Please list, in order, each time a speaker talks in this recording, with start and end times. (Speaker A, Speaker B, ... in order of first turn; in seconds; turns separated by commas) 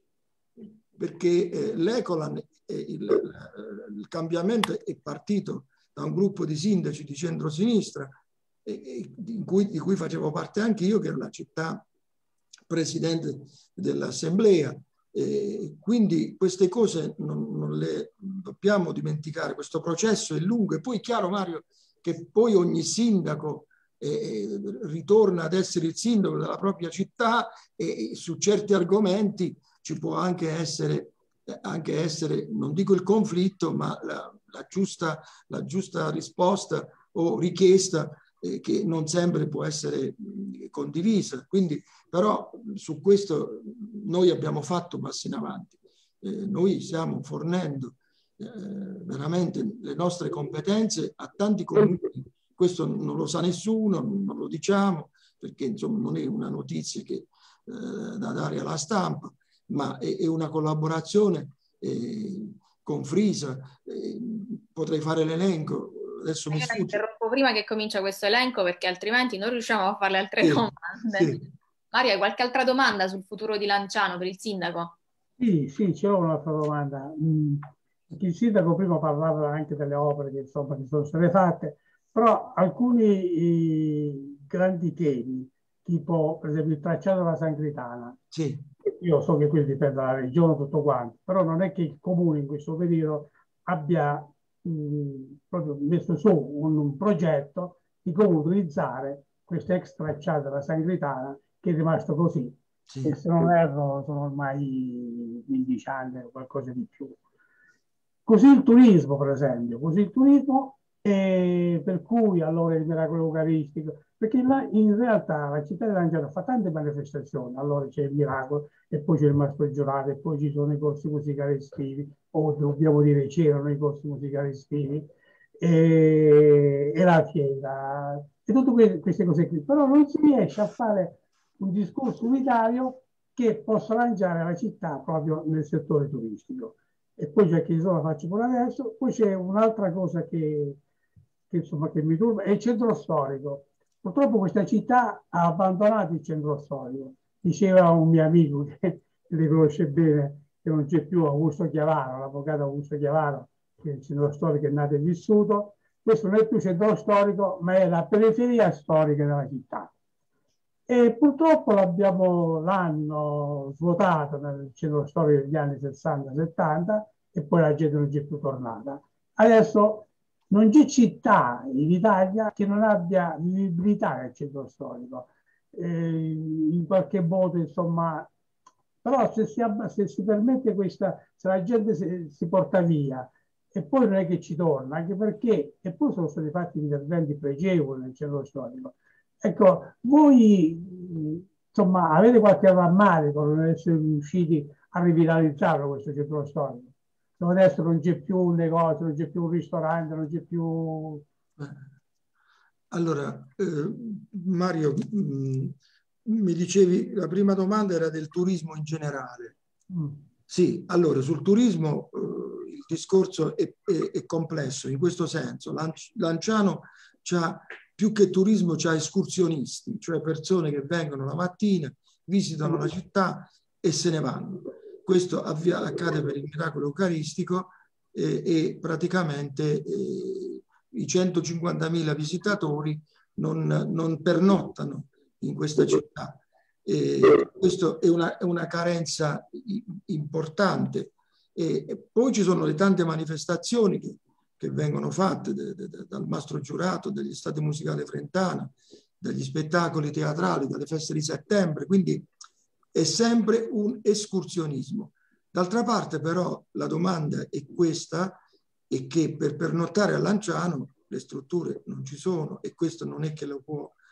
Speaker A: 0.6-11.8, Speaker A: 12.7-67.0, Speaker B: 66.5-75.0, Speaker A: 70.4-71.4, Speaker C: 75.4-88.2, Speaker A: 88.3-88.7, Speaker C: 89.0-107.2, Speaker A: 102.9-103.2, Speaker C: 108.3-125.1, Speaker C: 125.6-140.8, Speaker C: 141.5-159.9, Speaker C: 160.9-178.3, Speaker C: 179.0-201.2, Speaker A: 201.6-201.9, Speaker A: 202.9-209.6, Speaker C: 209.9-210.2, Speaker A: 210.5-252.3, Speaker A: 252.9-264.0